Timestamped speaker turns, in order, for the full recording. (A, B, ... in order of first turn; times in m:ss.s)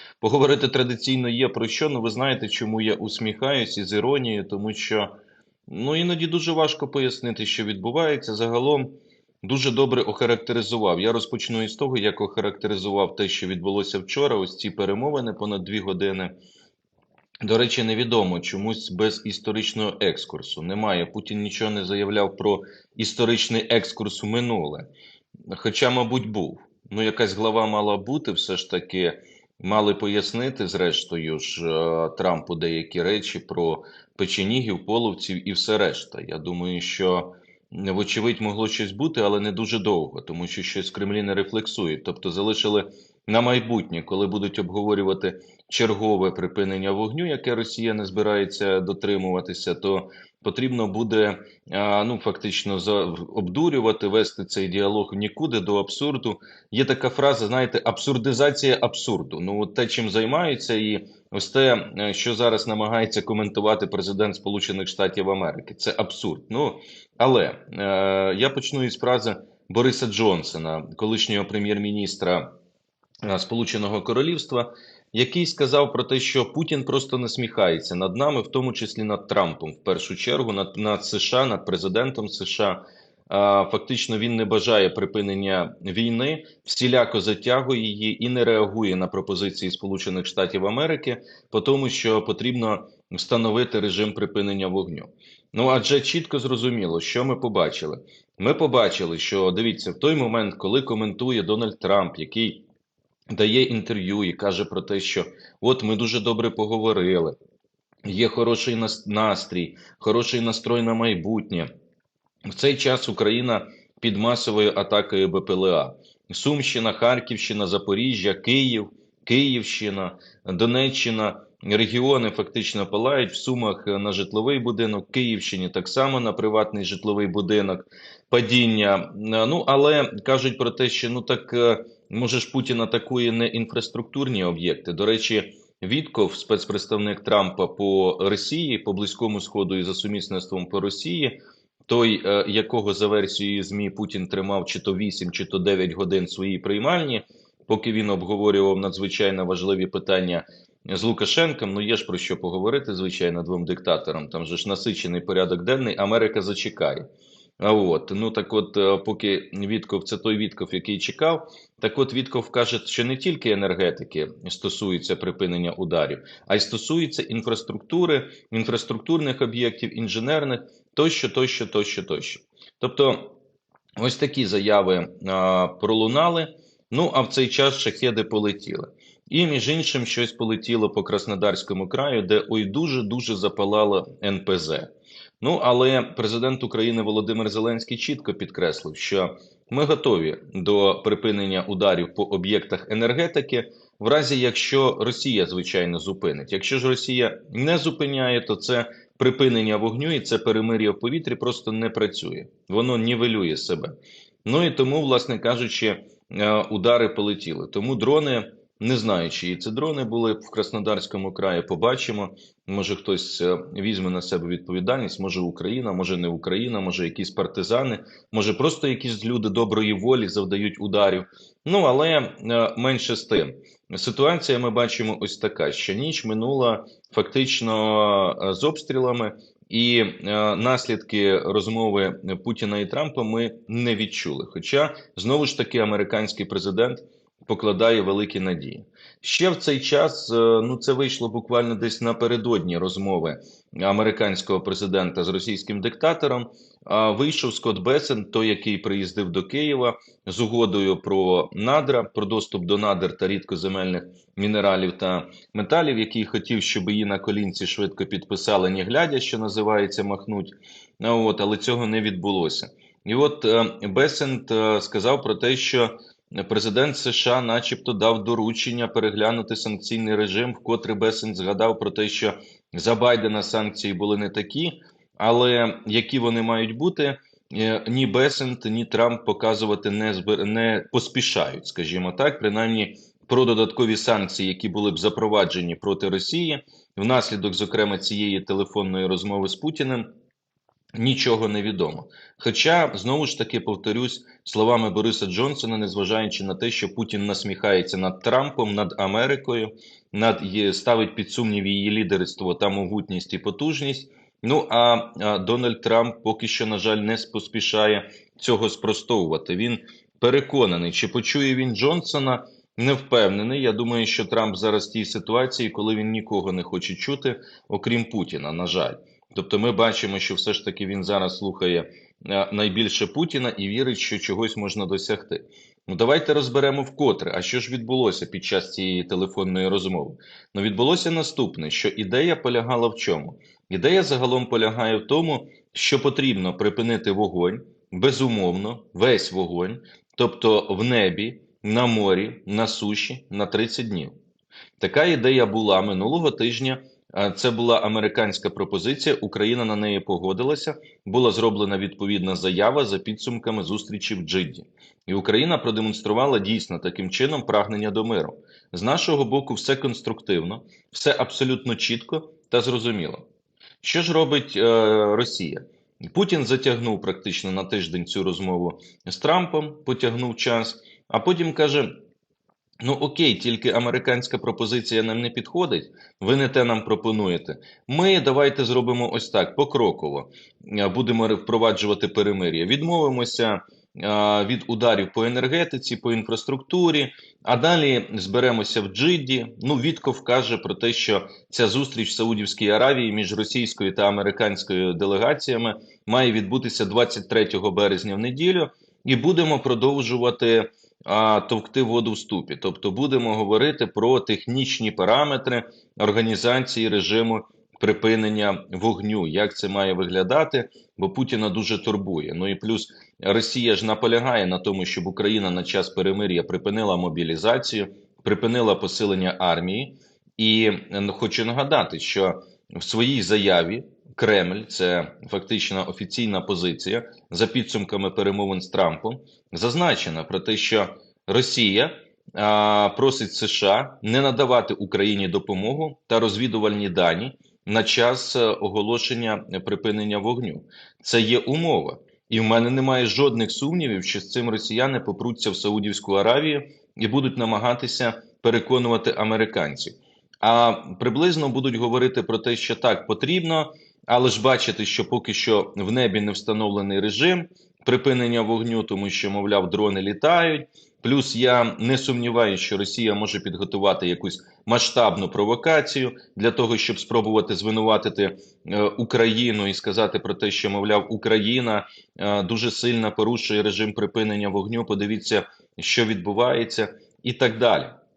0:00.2-0:05.1 A
0:05.7-0:16.4 A
0:17.4-0:24.9 A
0:25.5-1:12.5 A
1:13.2-1:42.6 A
1:43.3-1:47.4 A
1:48.0-1:51.7 A
1:52.5-2:37.1 A
2:37.6-2:53.4 A
2:54.0-4:50.1 A
4:51.0-5:44.2 A
5:44.8-6:03.2 A
6:03.8-6:12.0 A
6:12.8-7:57.9 A